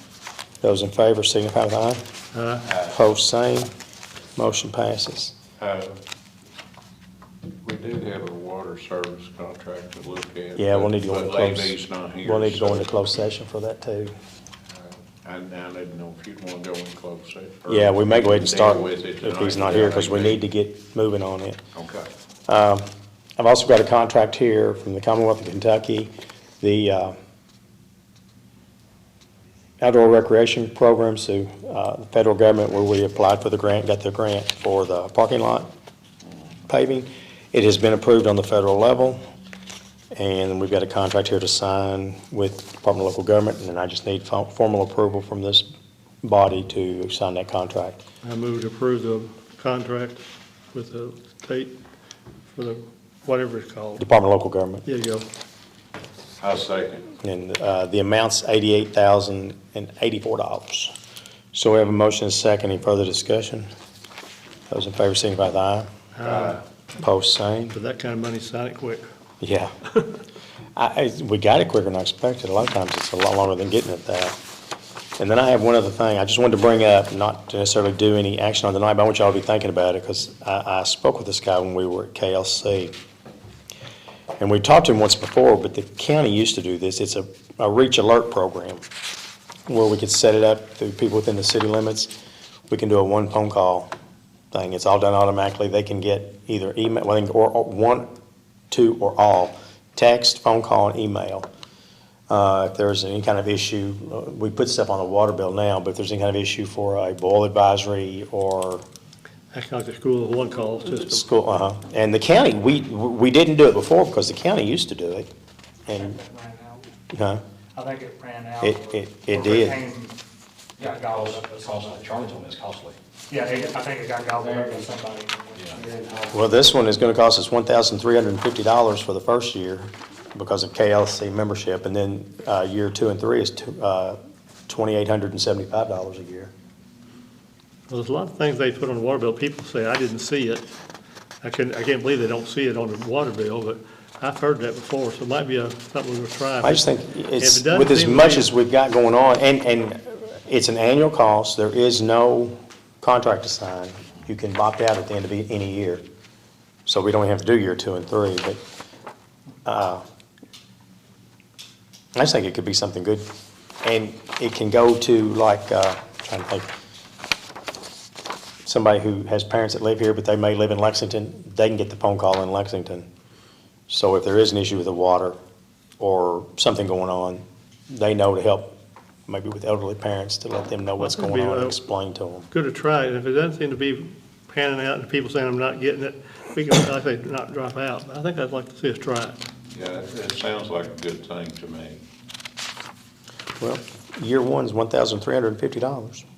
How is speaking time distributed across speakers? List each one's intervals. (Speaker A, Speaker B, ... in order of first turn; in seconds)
Speaker A: 0.6-2.0, 2.7-3.7, 4.3-5.3, 10.5-14.1, 17.7-21.6, 22.5-22.9, 23.4-27.1, 29.8-35.7, 36.7-39.2, 40.1-45.6, 46.2-48.0, 54.0-54.9, 57.2-60.9, 61.5-63.7, 64.7-65.9, 67.0-67.7, 69.4-69.7, 70.8-74.3, 75.2-82.9, 84.4-88.8, 89.7-92.1, 92.7-93.9, 94.5-98.1, 98.7-101.5, 102.3-108.8, 110.8-115.3, 115.9-116.2, 117.1-117.4, 118.6-119.8, 126.3-136.5, 146.6-156.0, 156.8-158.6, 159.7-160.0, 162.1-163.2, 163.8-166.7, 168.6-173.1, 173.9-175.4, 176.0-178.7, 179.3-182.5, 193.6-196.2
Speaker B: 2.3-2.6, 48.2-51.7, 52.5-54.0, 54.8-55.2, 66.2-66.6, 67.7-69.0, 109.5-111.2, 137.9-140.6, 141.4-146.8, 147.4-148.5, 181.0-181.8, 182.5-189.4
Speaker C: 5.6-6.0, 7.6-13.0, 14.7-20.4, 21.7-22.1, 56.4-57.1, 66.3-66.5, 189.7-192.0
Speaker D: 115.9-116.8, 117.7-120.1, 120.8-122.2, 123.3-126.5
Speaker E: 120.8-123.0, 125.5-125.9